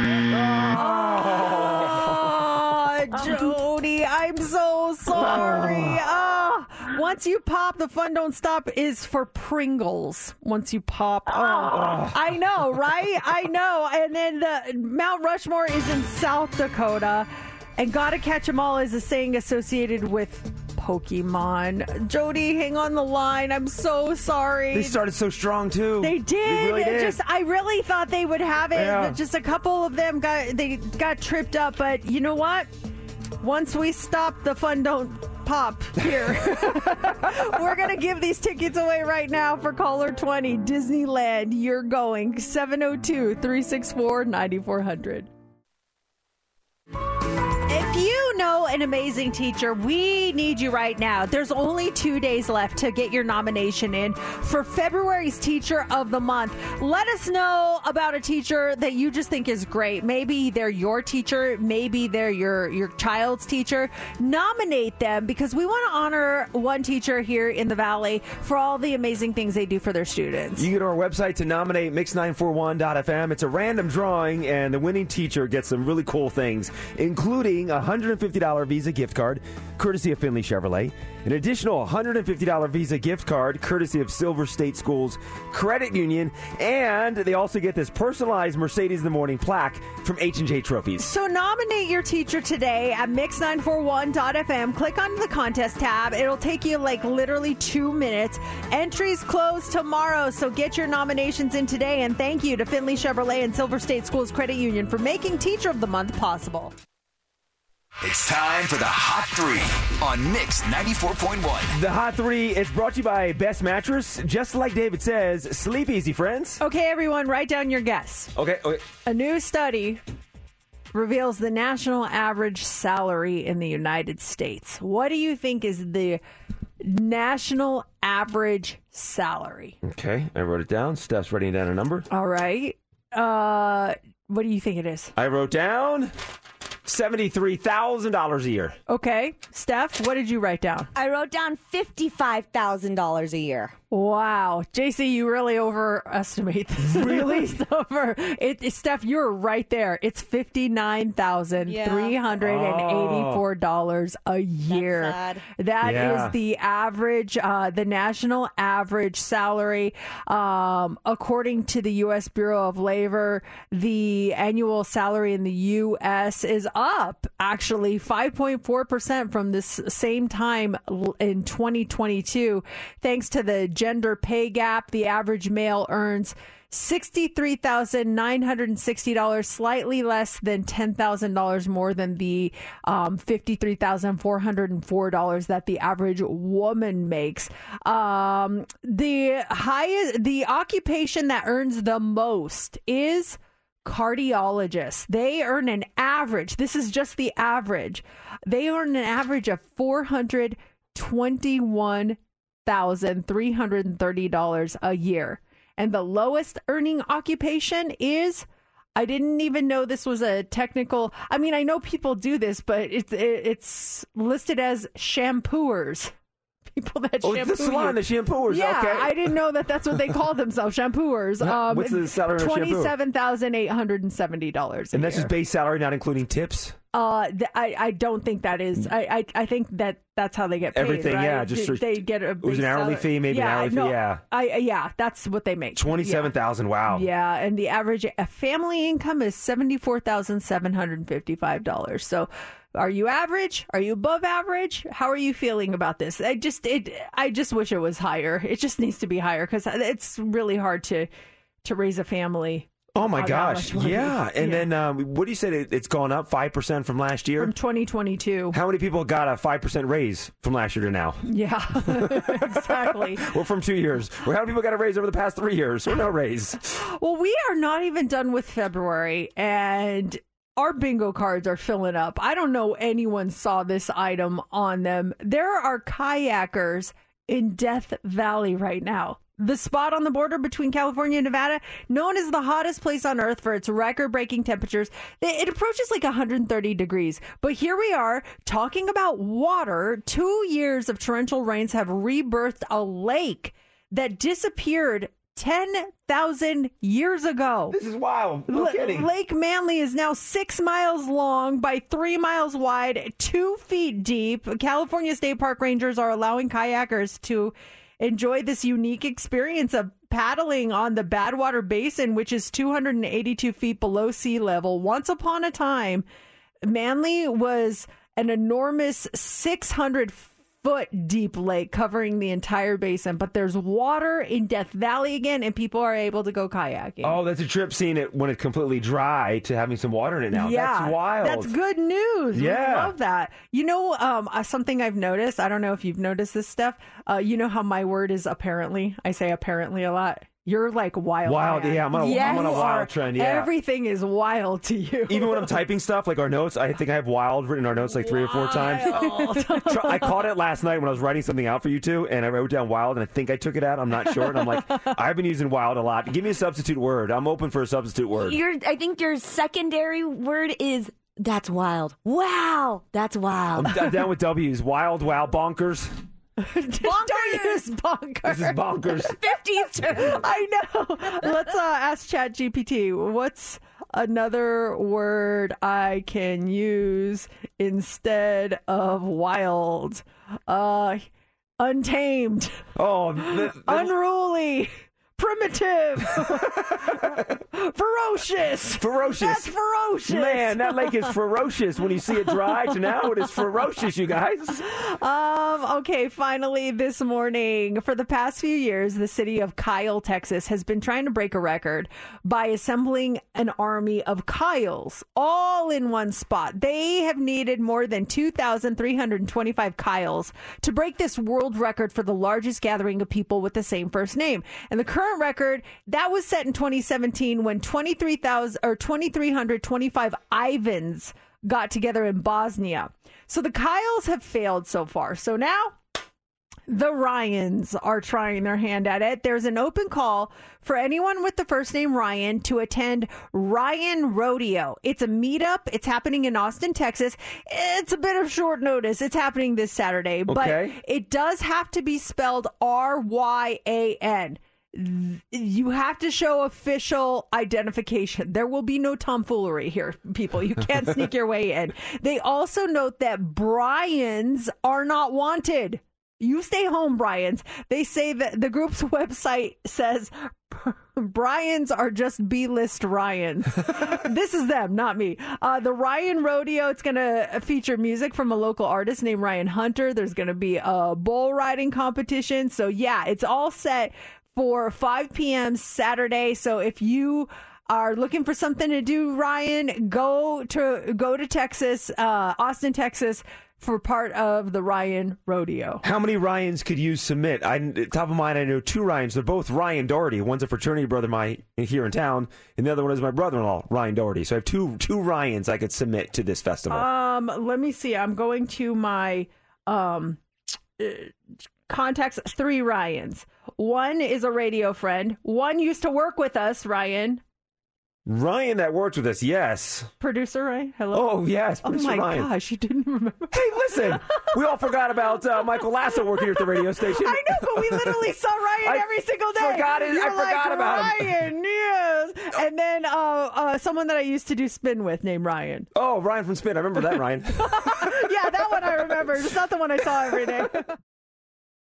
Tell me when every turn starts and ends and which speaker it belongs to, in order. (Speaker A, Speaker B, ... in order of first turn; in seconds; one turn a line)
Speaker A: 0.3-2.3
Speaker B: 0.7-24.9
Speaker A: 5.2-5.9
Speaker A: 11.6-12.2
Speaker A: 24.7-27.2
Speaker B: 26.0-32.7
Speaker A: 28.7-29.2
Speaker B: 33.4-45.3
Speaker A: 36.1-36.7
Speaker B: 47.7-70.7
Speaker A: 70.6-91.0
Speaker B: 91.0-106.7
Speaker C: 108.0-111.7
Speaker A: 111.7-116.6
Speaker B: 116.6-118.3
Speaker A: 118.3-118.8
Speaker B: 119.0-120.0
Speaker B: 120.9-126.2
Speaker B: 126.8-129.7
Speaker A: 129.8-132.1
Speaker B: 132.1-135.1
Speaker A: 135.2-136.1
Speaker A: 136.8-138.8
Speaker B: 138.9-140.9
Speaker D: 140.9-143.7
Speaker B: 143.9-208.4
Speaker A: 146.8-147.5
Speaker D: 151.7-152.2
Speaker A: 152.4-153.4
Speaker D: 154.7-155.4
Speaker A: 155.8-156.3
Speaker B: 208.9-216.1
Speaker B: 216.7-218.0
Speaker A: 217.2-219.3
Speaker B: 218.5-225.3
Speaker A: 221.4-222.9
Speaker A: 224.9-226.8
Speaker B: 226.9-236.3
Speaker A: 230.7-234.2
Speaker A: 235.8-237.1
Speaker B: 236.9-251.1
Speaker B: 251.6-254.7
Speaker A: 252.9-257.5
Speaker B: 257.4-258.6
Speaker A: 258.5-261.2
Speaker B: 261.2-263.2
Speaker A: 261.9-266.6
Speaker B: 266.8-297.7
Speaker A: 297.7-299.1
Speaker B: 298.5-316.0
Speaker B: 316.6-327.2
Speaker A: 327.0-331.5
Speaker B: 330.3-345.5
Speaker A: 332.3-332.9
Speaker A: 341.2-343.5
Speaker A: 345.1-358.4
Speaker B: 347.9-350.2
Speaker B: 354.1-354.4
Speaker D: 358.2-363.8
Speaker A: 363.5-365.9
Speaker B: 366.4-368.6
Speaker D: 366.8-367.6
Speaker A: 368.2-369.2
Speaker D: 369.1-370.2
Speaker B: 369.9-381.0
Speaker B: 381.6-382.6
Speaker A: 382.8-383.9
Speaker B: 383.3-391.1
Speaker A: 388.8-389.4
Speaker A: 390.1-394.6
Speaker B: 394.7-425.8
Speaker B: 426.7-485.8
Speaker A: 440.3-440.8
Speaker A: 485.8-496.9
Speaker B: 496.7-500.2
Speaker B: 500.8-501.1
Speaker B: 501.7-507.2
Speaker A: 508.1-509.9
Speaker B: 510.0-513.3
Speaker A: 510.9-512.3
Speaker A: 513.3-518.0
Speaker B: 516.4-525.7
Speaker A: 518.6-521.2
Speaker A: 525.7-529.2
Speaker B: 527.4-530.6